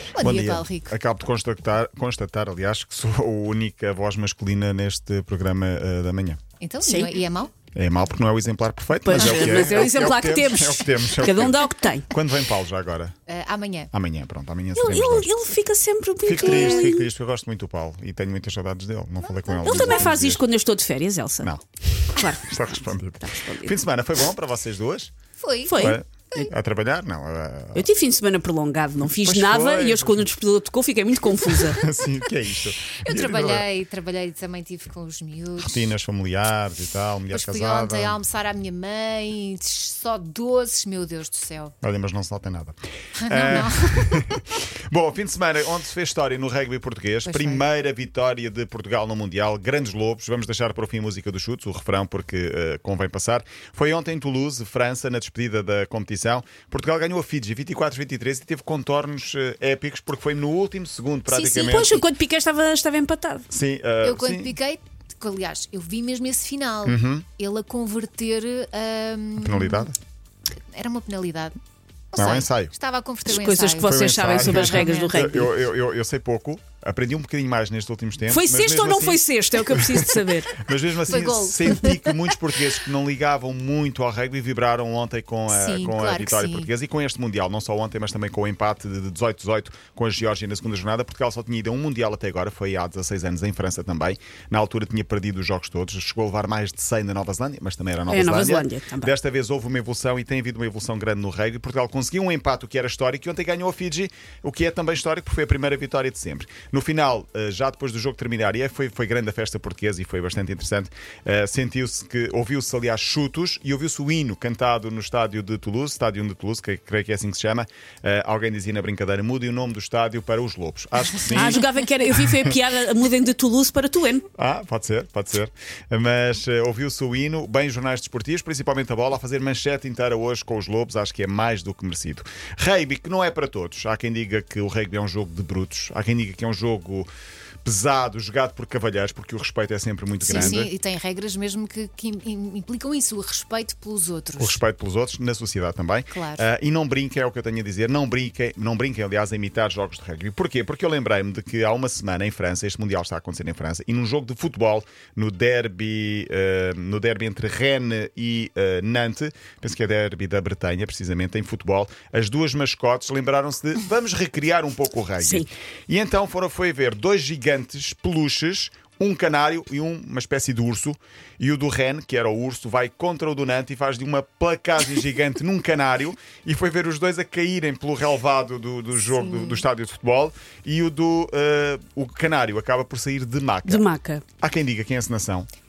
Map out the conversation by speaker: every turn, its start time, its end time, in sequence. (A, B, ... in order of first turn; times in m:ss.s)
0:00.1-0:00.9 A
0:00.2-0:06.4 B
0:06.6-0:07.5 A
0:06.8-0:07.1 C
0:07.8-0:13.1 B
0:09.0-0:12.1 C
0:09.2-0:09.5 A
0:13.3-0:13.9 A
0:13.9-0:15.3 B
0:14.8-0:17.1 C
0:16.2-0:20.4 B
0:16.4-0:16.9 A
0:19.2-0:20.1 A
0:19.6-0:21.5 C
0:21.4-0:25.1 B
0:22.1-0:23.8 C
0:25.4-0:26.5 A
0:25.7-0:26.5 C
0:25.8-0:27.9 B
0:27.8-0:31.8 C
0:29.2-0:30.3 B
0:31.7-0:33.7 B
0:33.0-0:35.9 A
0:35.6-0:38.2 B
0:37.3-0:41.8 A
0:41.8-1:02.0 B
0:43.2-0:44.4 A
0:47.3-0:47.6 A
1:01.3-1:03.4 C
1:03.5-1:04.6 B
1:04.0-1:09.9 A
1:06.8-1:07.3 B
1:09.4-1:10.0 B
1:10.7-1:11.6 A
1:12.1-1:15.3 A
1:12.2-1:12.7 B
1:13.3-1:15.5 C
1:13.8-2:01.6 B
1:18.3-1:20.6 C
1:21.1-1:22.4 A
1:25.5-1:26.7 A
1:38.1-1:39.1 C
2:01.3-2:04.3 C
2:04.4-2:17.1 B
2:17.6-2:20.7 B
2:20.2-2:24.6 A
2:24.4-3:03.8 B
2:26.1-2:26.5 A
2:45.2-2:45.5 C
2:59.0-2:59.7 A
3:03.7-3:04.2 C
3:04.4-3:05.5 B